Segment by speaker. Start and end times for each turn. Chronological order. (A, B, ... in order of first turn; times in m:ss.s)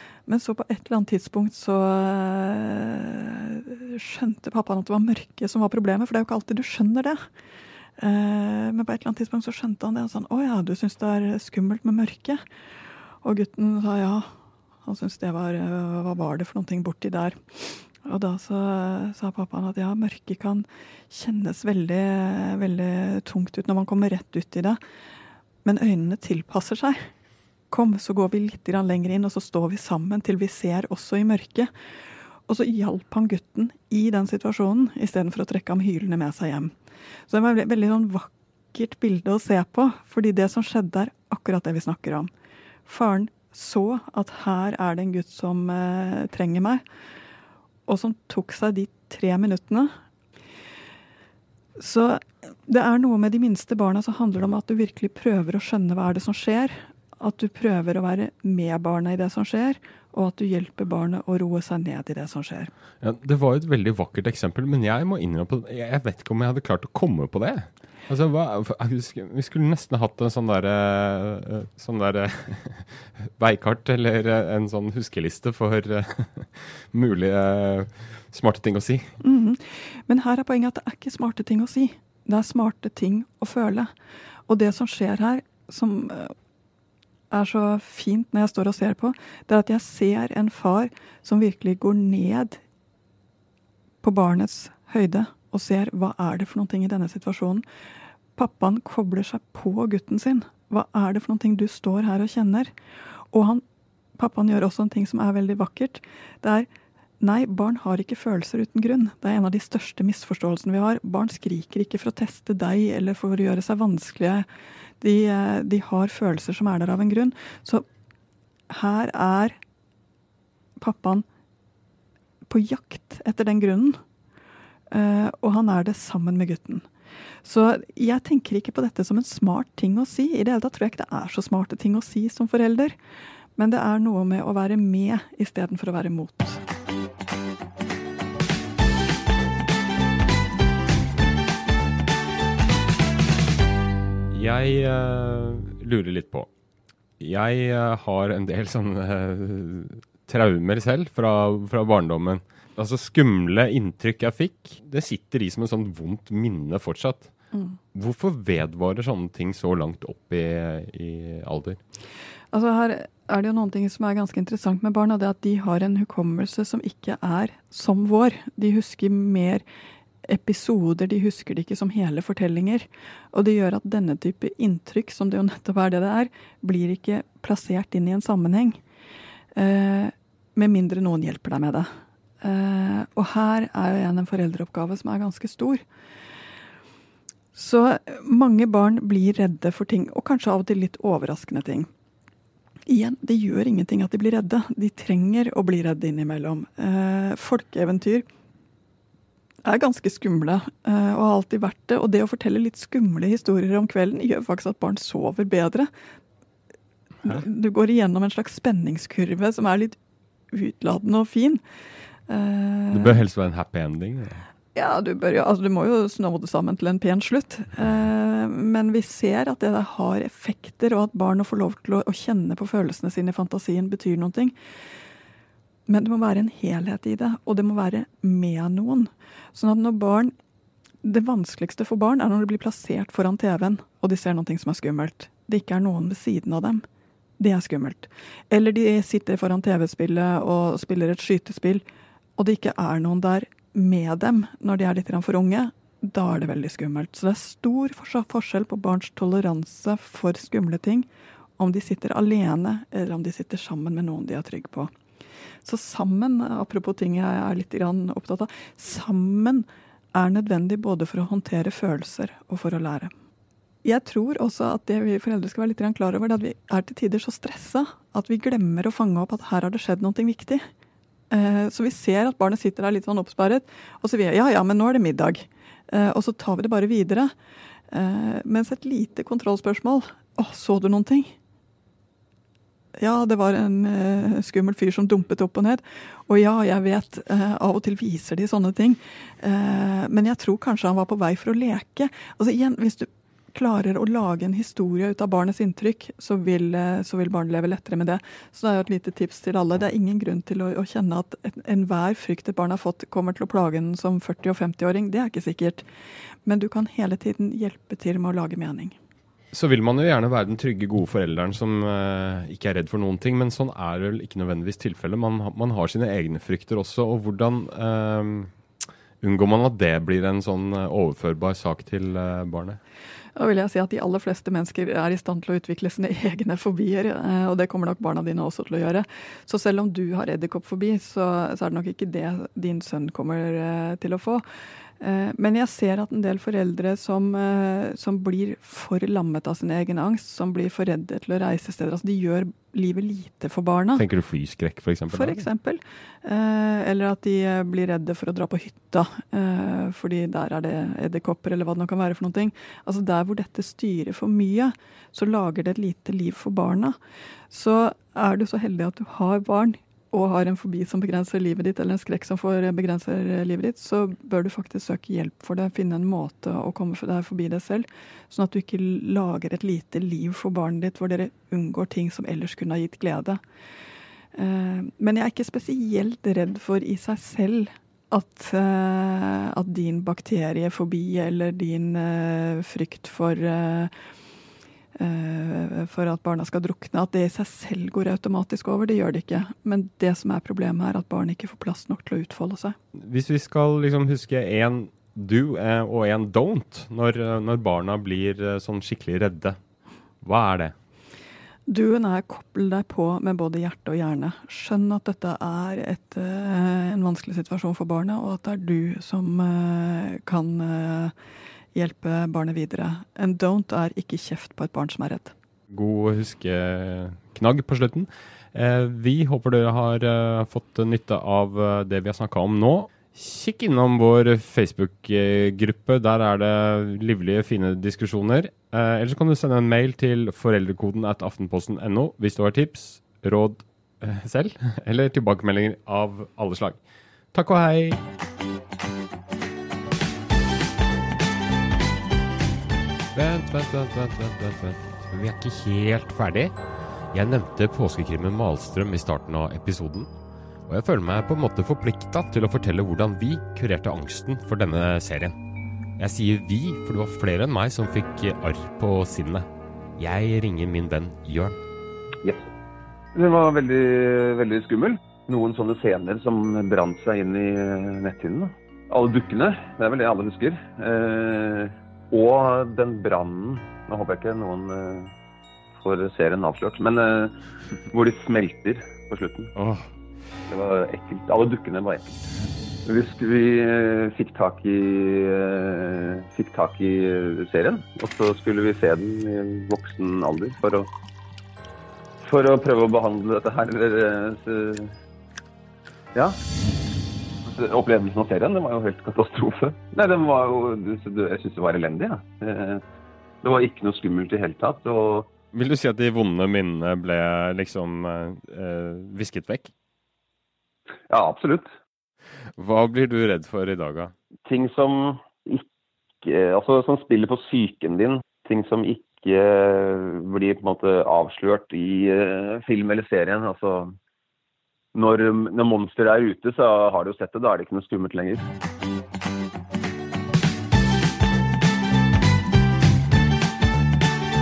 0:00.3-0:07.2 A
0:08.0-0:12.4 A
0:13.2-0:14.3 A
0:14.8-0:24.8 A
0:25.6-0:27.1 A
0:27.7-0:31.7 A
0:32.5-0:36.7 A
0:37.3-0:42.3 A
0:42.8-0:46.8 A
0:47.9-0:49.9 A
0:51.8-1:02.7 A
1:03.0-1:19.1 B
1:19.2-1:23.9 A
1:24.5-1:26.3 A
1:27.3-1:32.6 A
1:34.0-1:37.6 A
1:38.4-1:42.7 A
1:43.3-1:43.6 A
1:44.2-1:46.7 A
1:47.2-1:54.4 A
1:55.0-1:57.8 A
1:58.7-1:59.6 A
2:00.8-2:01.2 A
2:02.5-2:04.0 A
2:04.9-2:06.9 A
2:07.4-2:13.0 A
2:13.6-2:16.6 A
2:24.3-2:26.5 B
2:27.2-2:37.3 B
2:37.9-2:41.8 B
2:42.5-2:49.6 A
2:50.2-2:58.8 A
2:59.5-3:01.9 A
3:02.4-3:05.8 A
3:07.5-3:11.9 A
3:12.9-3:18.2 A
3:19.6-3:25.9 A
3:27.2-3:30.0 A
3:30.5-3:31.6 A
3:32.3-3:33.2 A
3:32.9-3:34.4 B
3:34.7-3:44.5 A
3:45.9-3:50.3 A
3:51.0-3:56.8 A
3:57.4-4:01.8 A
4:02.4-4:14.9 A
4:15.6-4:23.1 A
4:23.8-4:30.7 A
4:31.3-4:37.3 A
4:37.9-4:41.4 A
4:43.0-5:05.8 A
5:06.4-5:09.0 A
5:09.5-5:18.5 B
5:19.2-5:22.8 B
5:23.4-5:34.4 A
5:35.0-5:44.0 A
5:44.0-5:45.4 B
5:45.1-5:57.0 A
5:57.5-6:13.4 A
6:14.3-6:23.9 A
6:25.0-6:32.8 A
6:32.9-6:39.6 B
6:40.2-6:40.7 B
6:41.7-6:51.1 A
6:51.7-6:55.3 A
6:55.7-7:16.8 B
7:17.3-7:18.0 B
7:23.1-7:26.5 B
7:27.1-7:30.1 B
7:30.7-7:35.4 B
7:36.0-7:41.6 B
7:43.1-7:55.1 C
7:55.8-7:57.3 C
7:57.9-7:59.5 C
7:59.6-7:59.9 B
8:00.5-8:02.2 C
8:02.8-8:10.9 C
8:12.2-8:14.9 C
8:17.4-8:22.8 C
8:23.4-8:25.3 C
8:25.5-8:29.7 B
8:31.1-8:31.7 C
8:32.6-8:34.1 B
8:34.4-8:35.7 C
8:36.2-8:44.0 C
8:44.9-8:48.5 C